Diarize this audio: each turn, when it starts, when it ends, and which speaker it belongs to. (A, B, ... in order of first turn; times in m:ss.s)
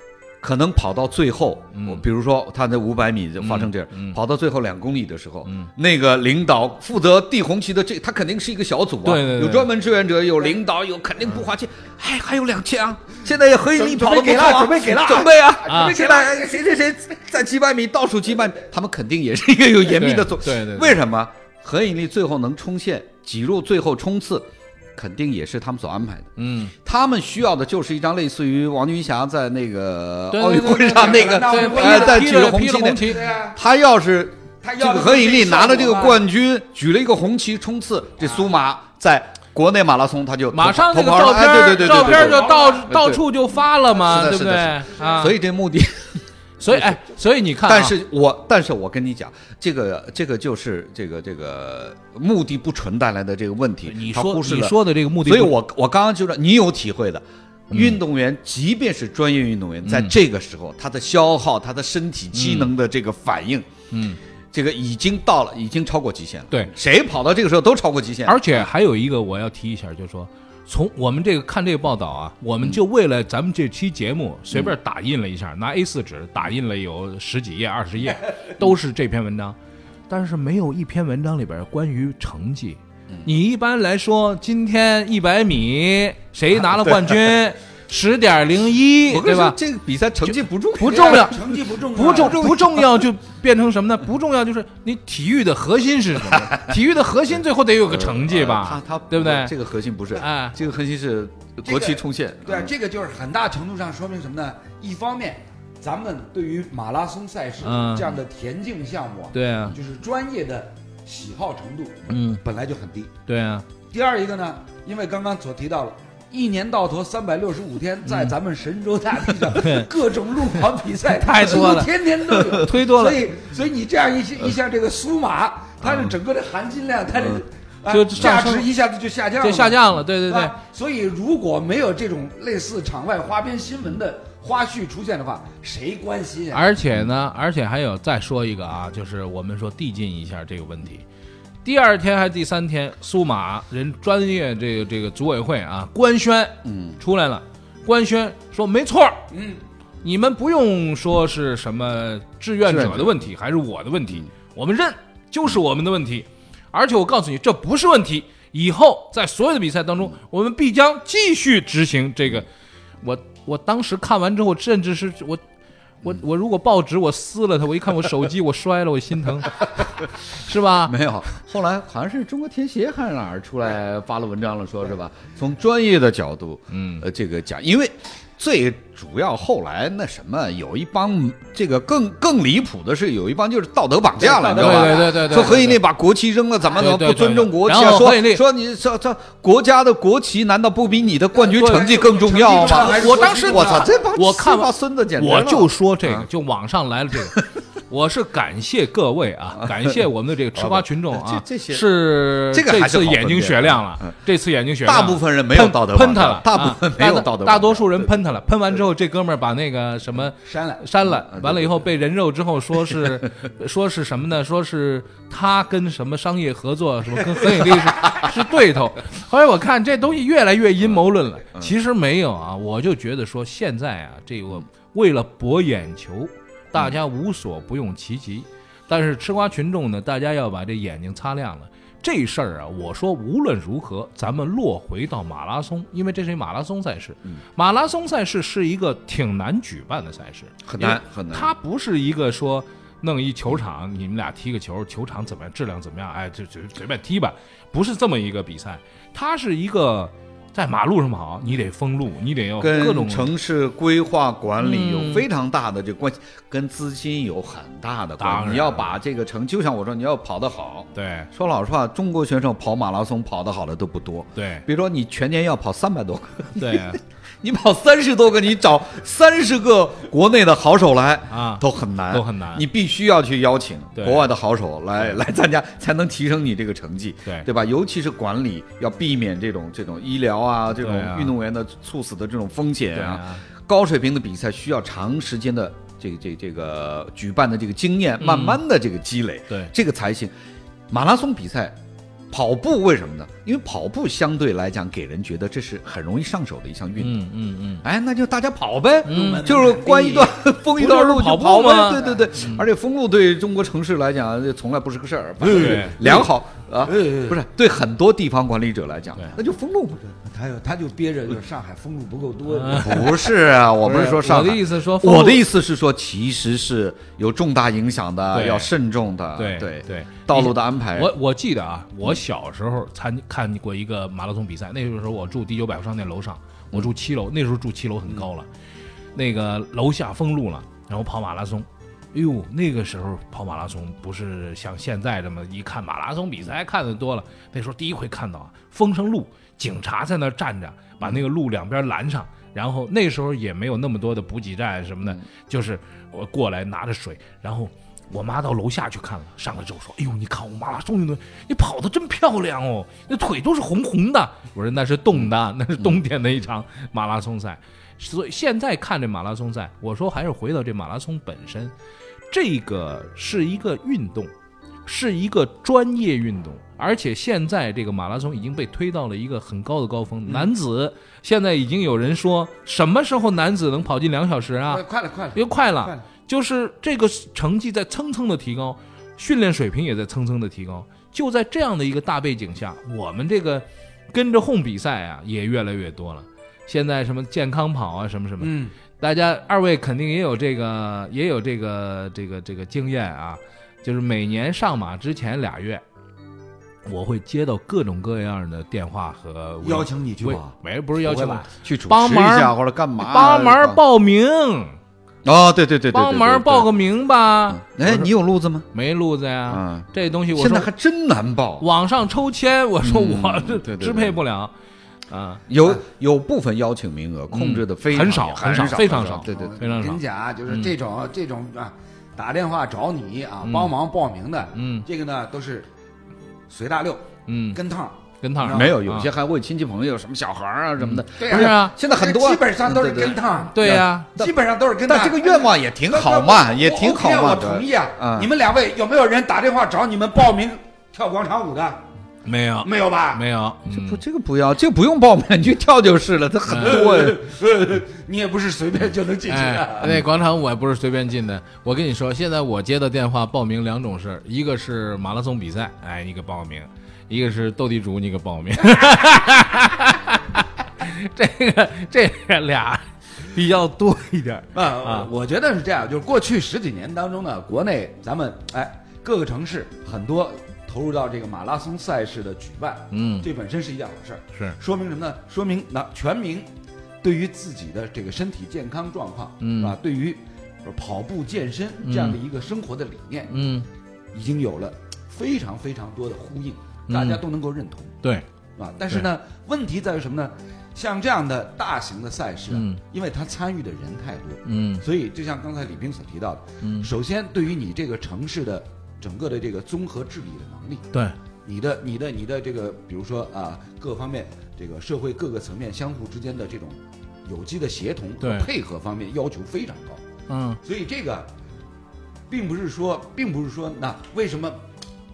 0:00.4-0:43.2 A
0:01.7-0:02.0 B
0:03.4-0:04.2 B
0:09.0-0:09.7 B
0:13.7-0:16.8 C
0:15.7-0:15.9 B
0:19.9-0:21.0 B
0:26.4-0:26.7 B
0:30.3-0:33.2 B
0:30.6-0:33.6 C
0:34.6-0:36.2 C
0:38.2-0:38.5 C
0:40.5-0:45.3 B
0:41.4-0:42.9 C
0:43.9-0:47.0 A
0:46.6-0:48.0 B
0:47.6-1:03.7 A
0:53.9-0:55.6 B
0:57.7-0:58.0 B
0:59.8-1:00.2 B
1:02.3-1:02.7 B
1:03.9-1:04.2 B
1:04.5-1:08.6 A
1:08.2-1:19.6 B
1:20.1-1:29.6 B
1:29.1-1:31.4 A
1:30.2-1:31.4 B
1:30.8-1:32.4 C
1:31.9-1:39.5 B
1:32.1-1:33.0 A
1:37.8-1:42.7 A
1:40.1-1:40.6 B
1:41.6-1:53.1 C
1:47.6-1:48.1 B
1:49.3-1:49.8 B
1:52.1-1:52.4 B
1:53.3-1:53.6 B
1:53.9-2:16.6 C
1:58.0-1:58.3 B
1:59.5-1:59.9 B
2:01.1-2:01.9 B
2:02.5-2:03.2 B
2:05.8-2:06.1 B
2:07.9-2:08.7 B
2:09.4-2:10.5 B
2:16.5-2:21.0 B
2:21.6-2:29.2 B
2:26.6-2:27.0 A
2:29.3-2:29.6 C
2:30.0-2:42.5 B
2:32.6-2:33.2 A
2:43.0-2:45.4 B
2:46.0-2:49.7 B
2:50.3-2:51.0 B
2:50.8-3:16.3 A
2:56.7-2:57.0 B
3:04.2-3:05.6 C
3:04.6-3:05.8 B
3:06.8-3:08.4 B
3:11.3-3:13.9 C
3:11.5-3:11.9 B
3:12.5-4:13.3 B
3:19.6-3:19.9 A
3:20.5-3:21.9 A
3:22.5-3:24.1 A
3:24.8-3:28.2 A
3:30.4-3:30.8 C
3:31.0-3:31.8 A
3:32.9-3:33.2 A
4:00.6-4:01.5 A
4:12.6-4:50.3 A
4:14.6-4:15.2 B
4:18.2-4:19.0 B
4:20.9-4:21.3 B
4:24.4-4:24.6 B
4:26.6-4:27.0 B
4:31.3-4:32.6 B
4:34.0-4:34.3 B
4:40.8-4:41.3 B
4:42.9-4:43.4 B
4:48.2-4:48.6 B
4:50.9-4:51.8 A
4:52.3-4:57.2 A
4:57.0-4:57.8 B
4:57.8-5:10.1 A
4:59.0-5:00.4 C
4:59.0-4:59.5 B
5:00.7-5:02.6 B
5:01.9-5:02.2 C
5:05.4-5:06.1 B
5:05.4-5:06.3 C
5:06.8-5:07.4 C
5:10.2-5:13.2 C
5:12.5-5:13.1 B
5:12.7-5:21.1 A
5:13.8-5:15.4 B
5:18.3-5:18.7 B
5:19.4-5:28.5 B
5:29.1-6:01.7 B
6:02.3-6:04.3 B
6:04.8-6:14.8 B
6:14.7-6:16.0 C
6:15.3-6:35.8 B
6:28.4-6:28.7 C
6:36.8-6:44.8 B
6:39.6-6:40.5 C
6:41.0-6:43.8 A
6:45.2-6:46.7 A
6:45.9-6:48.1 B
6:47.5-6:48.7 A
6:48.7-6:50.7 B
6:49.5-6:51.6 A
6:51.6-6:54.5 B
6:52.8-6:54.2 A
6:55.1-6:55.4 B
6:55.5-6:59.5 A
6:57.3-7:00.7 B
6:59.2-7:05.7 C
7:03.4-7:03.7 B
7:04.5-7:04.8 B
7:06.5-7:08.7 C
7:07.3-7:07.6 B
7:08.2-7:09.1 B
7:08.4-7:14.3 A
7:10.8-7:11.7 B
7:11.2-7:21.8 C
7:13.5-7:14.1 B
7:14.9-7:18.3 A
7:22.2-7:24.0 B
7:22.6-7:23.2 C
7:23.7-7:27.2 A
7:26.5-7:26.8 B
7:26.6-7:30.0 C
7:29.3-7:45.1 B
7:44.5-7:56.5 C
7:52.9-7:53.3 B
7:57.0-8:03.3 C
7:59.4-7:59.7 B
8:01.8-8:02.2 B
8:03.3-8:03.6 B
8:04.1-8:08.0 C
8:06.9-8:07.2 B
8:08.6-8:20.8 C
8:12.5-8:12.8 B
8:14.4-8:14.8 B
8:16.6-8:16.9 B
8:21.4-8:30.0 C
8:28.2-8:28.5 B
8:30.3-8:30.6 B
8:30.6-8:31.3 C
8:32.3-8:34.6 C